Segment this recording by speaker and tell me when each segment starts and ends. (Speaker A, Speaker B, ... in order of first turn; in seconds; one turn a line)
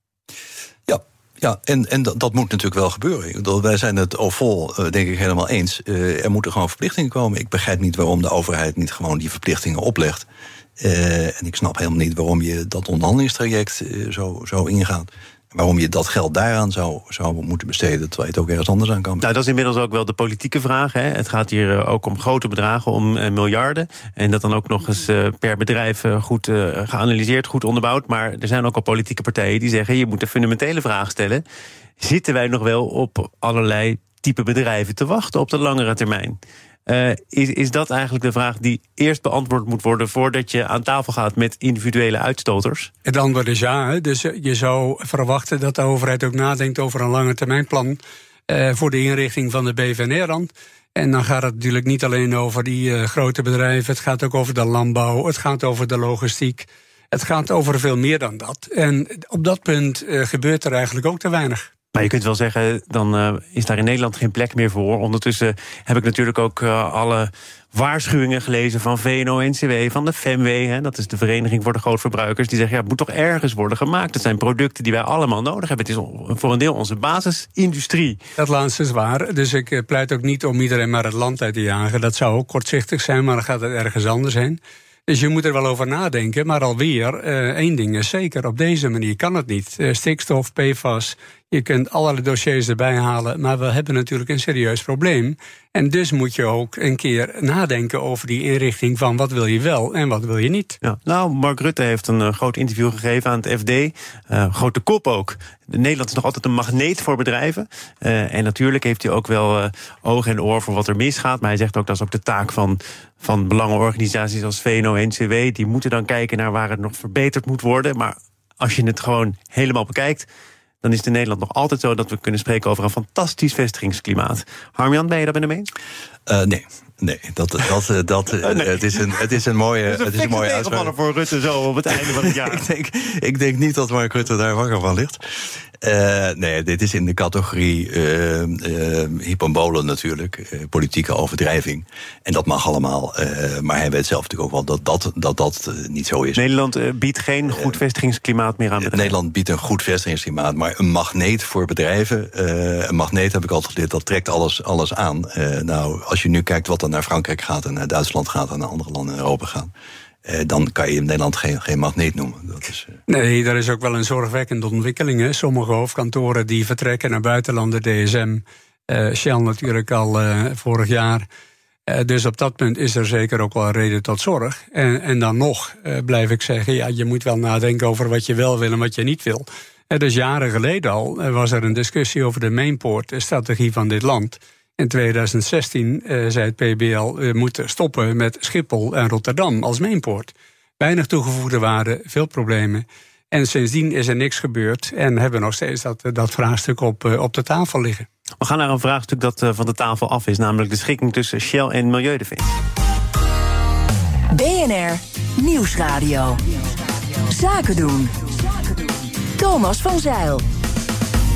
Speaker A: 0.9-10.3
Speaker A: 10.8-19.3
Speaker B: 19.2-31.4
Speaker B: 32.0-42.9
Speaker C: 43.0-61.7
Speaker B: 62.0-78.2
Speaker C: 78.4-100.8
Speaker B: 100.8-120.3
Speaker B: 120.8-125.7
Speaker A: 126.3-130.9
Speaker B: 128.4-128.9
Speaker B: 129.9-132.7
Speaker A: 131.9-146.4
Speaker B: 146.4-149.2
Speaker A: 147.5-147.8
Speaker A: 148.8-159.7
Speaker A: 160.2-163.0
Speaker C: 163.1-171.3
Speaker C: 171.9-198.1
Speaker B: 198.4-202.6
Speaker D: 204.3-206.4
Speaker D: 207.3-210.4